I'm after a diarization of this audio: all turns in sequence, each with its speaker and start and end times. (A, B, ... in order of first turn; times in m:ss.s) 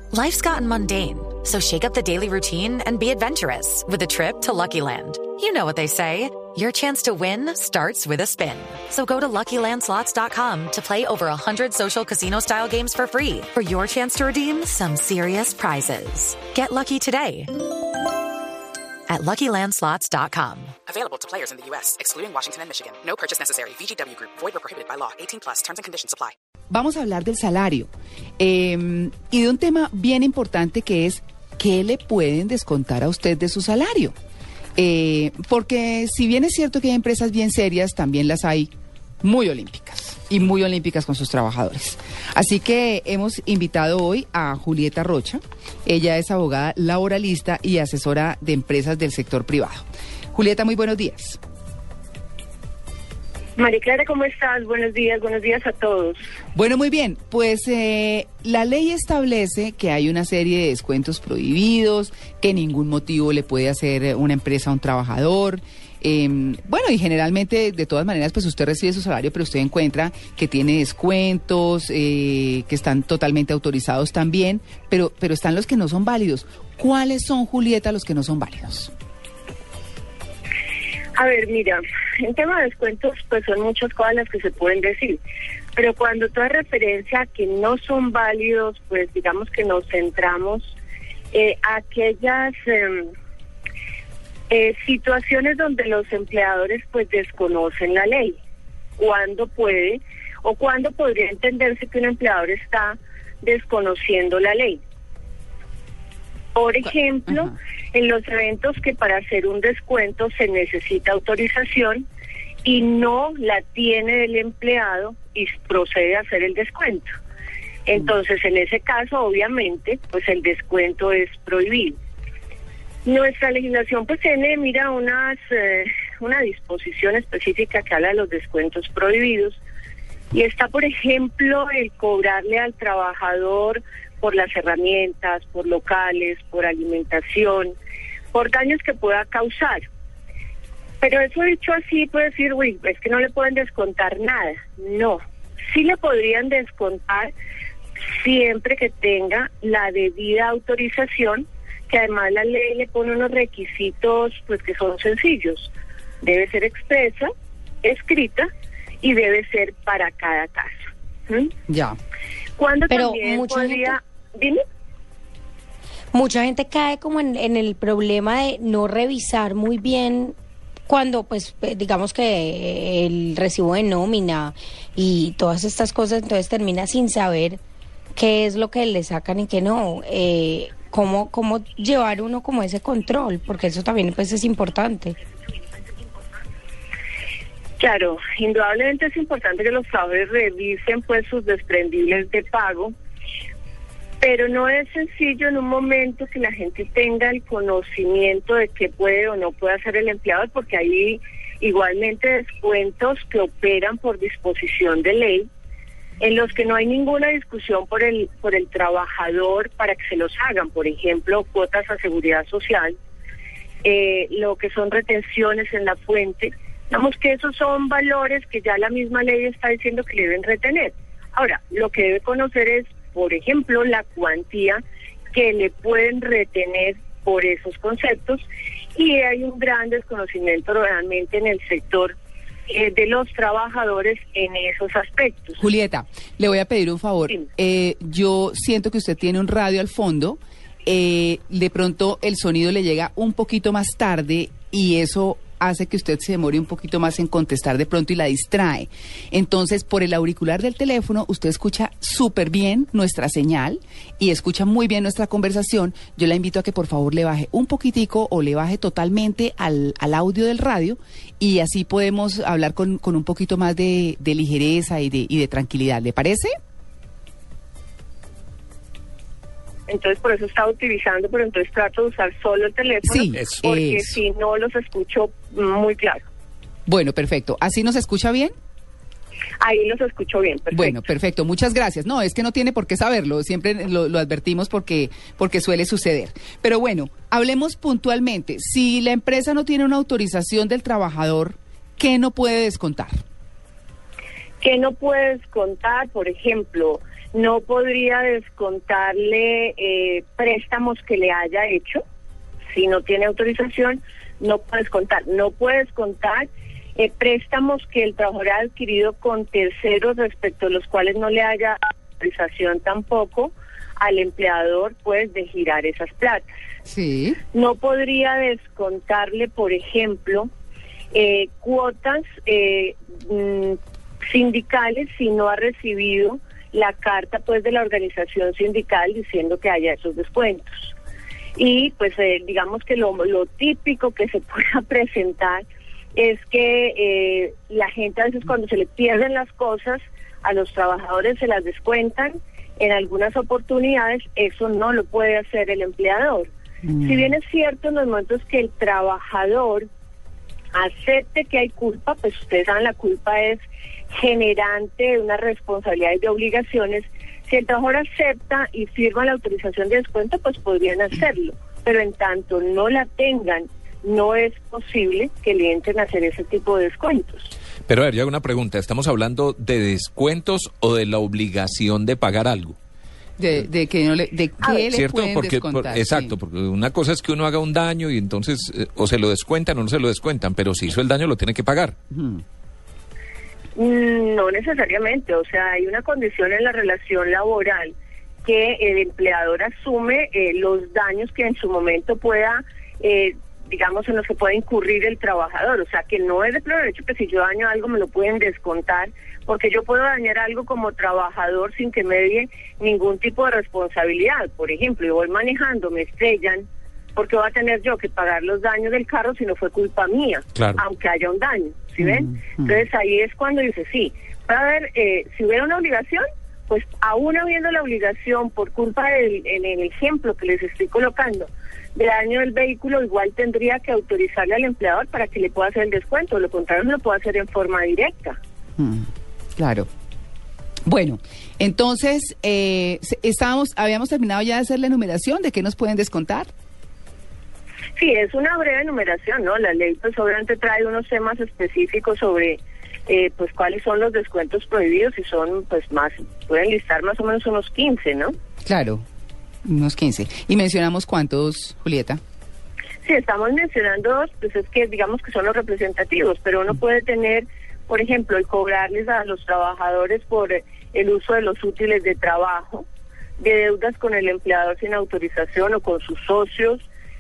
0:00.1-0:17.5 A
0:19.1-0:20.7 A
0:20.9-0:26.3 B
0:26.7-0:34.1 C
0:34.8-0:38.7 C
0:39.2-0:51.4 C
0:53.6-0:56.2 D
0:56.6-1:18.9 C
1:21.2-1:25.2 D
1:25.8-1:30.8 D
1:31.3-1:33.1 D
1:34.5-1:38.4 D
1:39.0-1:44.8 D
1:46.6-1:52.0 D
1:52.6-1:57.1 D
1:57.9-2:02.0 D
2:03.0-2:09.6 D
2:10.3-2:17.8 D
2:18.3-2:19.8 D
2:21.0-2:27.3 D
2:28.1-2:37.3 D
2:37.8-2:38.5 D
2:39.0-2:41.5 D
2:41.7-2:42.0 C
2:42.6-2:44.6 D
2:42.9-2:44.0 E
2:46.1-2:50.3 E
2:50.9-2:57.6 E
2:58.2-3:05.2 E
3:07.8-3:12.9 D
3:14.2-3:25.5 D
3:26.2-3:33.0 D
3:33.8-3:44.8 D
3:45.3-3:48.4 D
3:49.0-3:52.2 D
3:52.7-3:55.7 D
3:55.6-4:26.5 C
4:29.9-4:36.2 D
4:33.0-4:34.2 C
4:36.8-4:38.5 C
4:39.6-4:41.0 D
4:40.7-4:53.2 C
4:54.6-5:02.0 D
5:02.7-5:16.5 D
5:16.8-5:17.4 C
5:17.5-5:20.5 D
5:21.1-5:30.9 D
5:31.6-5:35.6 D
5:36.2-5:49.9 D
5:46.8-5:47.3 C
5:50.7-5:53.6 D
5:54.1-6:07.5 D
6:07.9-6:12.8 F
6:13.4-6:16.3 C
6:14.6-6:14.9 D
6:14.9-6:21.9 F
6:22.1-6:22.4 C
6:23.8-6:27.9 D
6:28.4-7:08.4 D
6:50.5-6:50.8 F
6:52.0-6:52.8 C
7:08.8-7:09.9 C
7:10.8-7:16.5 C
7:18.0-7:28.3 D
7:28.6-7:29.0 C
7:29.6-7:32.2 C
7:33.0-7:42.8 D
7:43.4-7:46.8 D